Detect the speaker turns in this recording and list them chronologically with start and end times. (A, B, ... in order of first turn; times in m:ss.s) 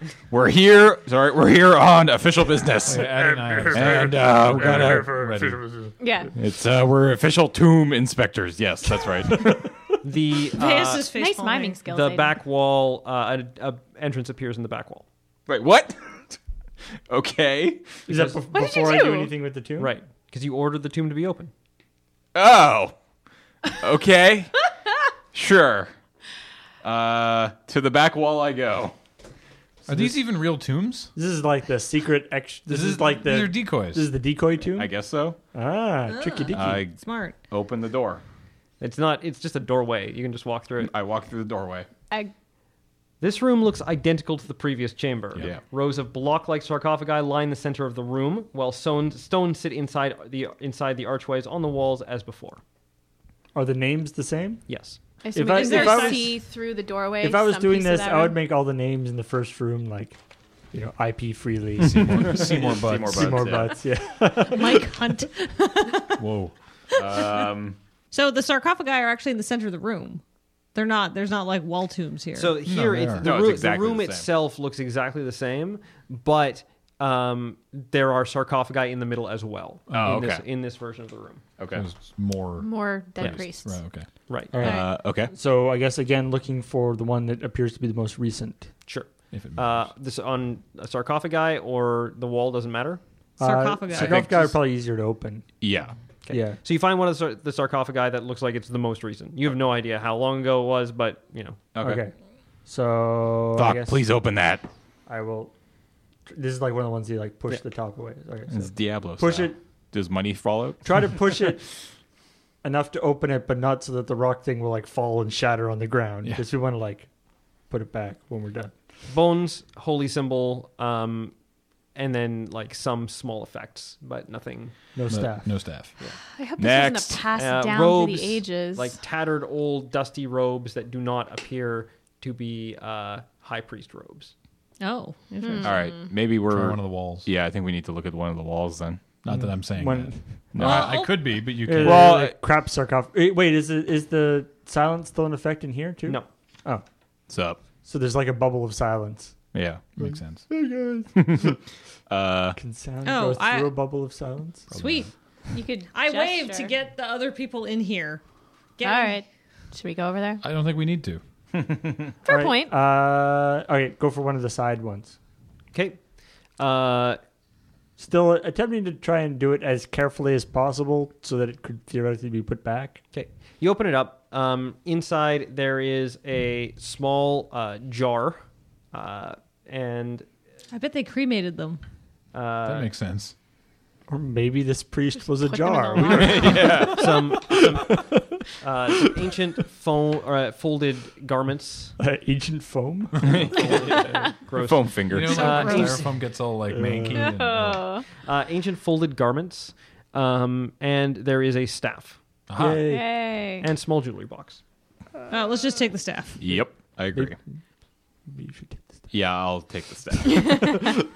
0:00.3-0:05.2 A
0:02.9-0:05.6 B
0:02.9-0:05.9 C
0:06.0-0:06.3 D
0:06.4-0:09.6 A
0:09.3-0:09.8 C
0:10.0-0:11.1 E
0:10.6-0:11.8 F
0:11.1-0:12.4 D
0:11.9-0:15.1 E
0:15.5-0:16.4 A
0:17.1-0:18.1 A
0:18.1-0:20.0 C
0:18.5-0:19.3 D
0:19.8-0:21.5 E
0:22.3-0:23.0 A
0:23.7-0:24.7 A
0:25.3-0:25.9 A
0:26.8-0:29.0 A
0:29.9-0:31.1 B
0:29.9-0:30.2 C
0:31.2-0:34.9 C
0:32.7-0:34.1 B
0:34.7-0:35.4 A
0:35.5-0:36.8 C
0:36.1-0:37.4 F
0:36.5-0:38.2 A
0:38.8-0:40.9 E
0:40.8-0:41.9 A
0:43.2-0:52.6 E
0:45.4-0:45.6 A
0:53.5-0:54.6 C
0:54.7-0:55.0 E
0:55.2-0:58.4 D
0:55.3-0:56.4 C
0:55.5-0:56.4 F
0:57.2-1:00.2 C
1:00.7-1:05.0 C
1:01.8-1:03.6 B
1:02.0-1:03.8 A
1:04.4-1:06.2 F
1:06.2-1:06.5 B
1:06.9-1:07.8 A
1:07.0-1:07.5 F
1:08.1-1:10.2 F
1:10.7-1:12.6 F
1:12.4-1:21.4 E
1:12.6-1:13.3 B
1:13.2-1:14.3 A
1:19.9-1:20.2 B
1:20.0-1:20.4 A
1:21.6-1:21.9 A
1:21.8-1:24.1 B
1:22.6-1:23.8 D
1:24.3-1:24.6 E
1:24.5-1:28.7 C
1:24.6-1:25.3 A
1:24.6-1:24.9 F
1:28.9-1:33.0 E
1:29.3-1:29.9 B
1:33.4-1:34.3 F
1:33.4-1:35.5 C
1:33.9-1:34.5 A
1:35.6-1:36.0 A
1:36.2-1:41.7 E
1:36.3-1:36.6 C
1:41.8-1:42.1 A
1:41.8-1:42.1 C
1:42.7-1:44.0 C
1:43.6-1:44.7 A
1:45.1-1:45.5 C
1:46.3-1:49.6 C
1:48.5-1:51.1 A
1:50.8-1:51.7 C
1:52.6-1:57.1 C
1:57.7-1:58.7 C
1:59.1-2:01.4 E
2:02.0-2:04.7 E
2:05.0-2:05.6 C
2:05.1-2:06.0 B
2:06.3-2:09.0 D
2:06.6-2:07.3 A
2:07.4-2:14.3 E
2:14.8-2:15.9 F
2:15.4-2:15.8 D
2:15.6-2:19.2 A
2:16.5-2:17.3 B
2:19.2-2:22.3 B
2:19.3-2:20.8 C
2:20.5-2:22.4 A
2:21.6-2:26.8 C
2:27.3-2:27.6 A
2:27.8-2:29.4 C
2:29.5-2:29.9 A
2:30.0-2:30.5 B
2:30.0-2:31.5 C
2:31.2-2:32.6 A
2:32.6-2:34.7 C
2:33.0-2:33.7 F
2:34.7-2:35.1 B
2:34.8-2:35.1 F
2:35.5-2:36.7 D
2:35.9-2:38.2 F
2:38.8-2:39.2 F
2:38.8-2:40.4 D
2:40.4-2:41.2 B
2:41.6-2:42.1 A
2:42.2-2:42.7 D
2:42.3-2:45.2 C
2:45.7-2:46.0 E
2:46.6-2:47.2 E
2:48.0-2:53.0 C
2:53.1-3:00.3 E
3:00.7-3:01.8 F
3:02.3-3:02.9 E
3:02.6-3:03.3 B
3:04.1-3:09.4 C
3:05.4-3:06.6 D
3:06.0-3:07.3 A
3:06.9-3:12.0 E
3:12.0-3:13.4 C
3:13.2-3:15.9 A
3:13.5-3:16.2 E
3:15.1-3:17.9 B
3:16.7-3:17.2 C
3:17.2-3:18.1 D
3:18.2-3:22.2 E
3:22.5-3:22.9 B
3:22.6-3:23.1 C
3:22.8-3:23.7 D
3:23.6-3:24.6 E
3:25.3-3:26.4 F
3:26.4-3:27.4 A
3:28.3-3:29.1 C
3:29.1-3:30.9 A